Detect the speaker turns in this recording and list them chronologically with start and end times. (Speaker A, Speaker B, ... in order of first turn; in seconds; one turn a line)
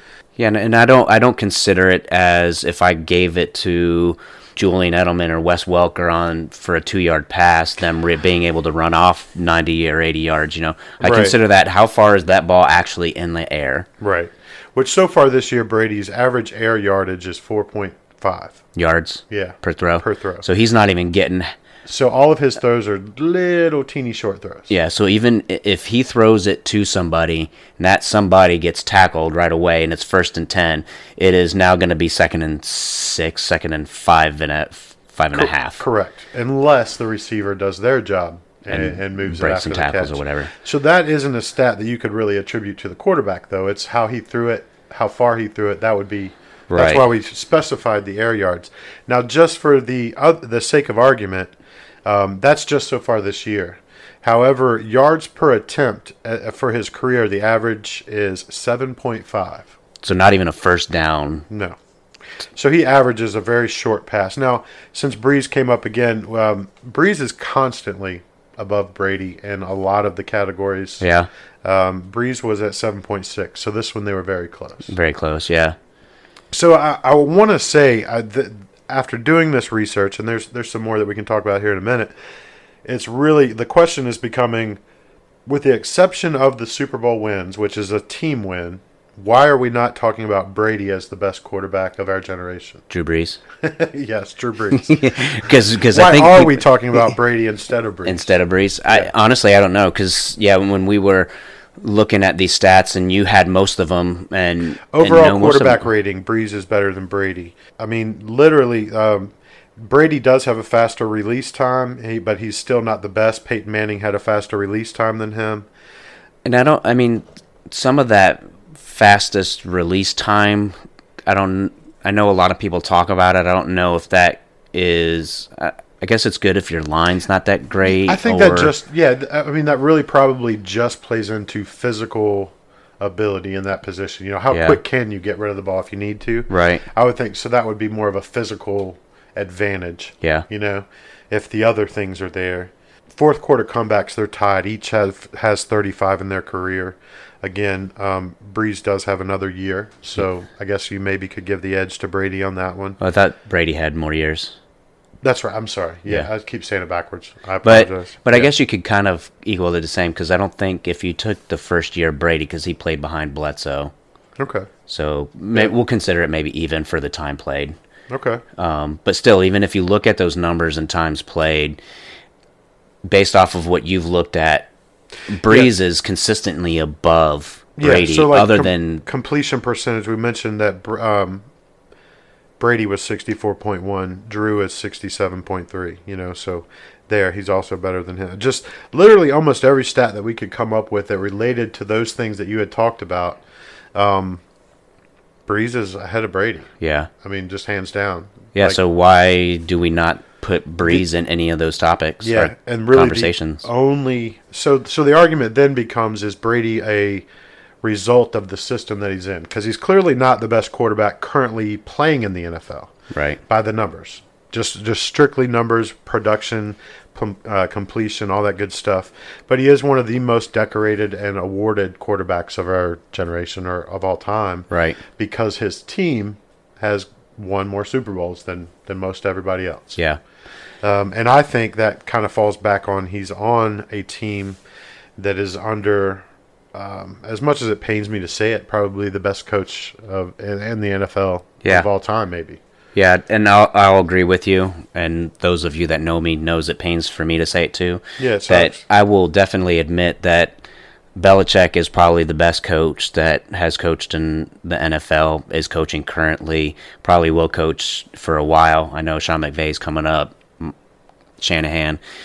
Speaker A: 0.4-13.9
Speaker B: 11.0-11.3
Speaker B: 14.0-18.6
Speaker A: 18.7-21.5
Speaker B: 19.3-20.4
Speaker B: 21.9-24.7
Speaker A: 24.7-35.8
Speaker B: 35.3-51.5
Speaker A: 38.7-40.5
Speaker A: 46.7-47.0
Speaker B: 52.0-59.7
Speaker A: 60.0-61.5
Speaker B: 61.5-61.8
Speaker B: 62.5-71.0
Speaker A: 71.0-71.3
Speaker B: 71.6-74.9
Speaker A: 74.9-75.8
Speaker B: 76.5-82.1
Speaker B: 82.8-84.8
Speaker B: 85.5-92.8
Speaker A: 92.9-93.4
Speaker B: 93.6-98.3
Speaker A: 94.8-96.6
Speaker A: 98.0-105.8
Speaker B: 104.9-115.7
Speaker A: 116.4-120.7
Speaker A: 121.3-128.7
Speaker B: 127.8-153.0
Speaker A: 134.5-134.8
Speaker A: 136.5-136.8
Speaker A: 140.2-140.4
Speaker A: 153.0-154.5
Speaker B: 155.2-158.5
Speaker A: 157.6-163.9
Speaker B: 164.4-164.7
Speaker A: 164.9-167.8
Speaker B: 168.1-168.4
Speaker A: 168.6-171.8
Speaker A: 173.0-174.7
Speaker A: 175.3-179.0
Speaker B: 177.8-181.5
Speaker B: 182.6-193.4
Speaker B: 193.9-194.4
Speaker B: 195.4-198.8
Speaker A: 196.8-197.1
Speaker A: 198.5-203.7
Speaker B: 202.2-207.2
Speaker B: 207.8-212.9
Speaker A: 213.1-213.4
Speaker B: 213.4-230.0
Speaker A: 224.7-225.0
Speaker B: 230.8-234.6
Speaker B: 235.2-242.6
Speaker A: 242.9-250.6
Speaker B: 248.2-248.8
Speaker A: 251.2-260.7
Speaker A: 261.4-262.0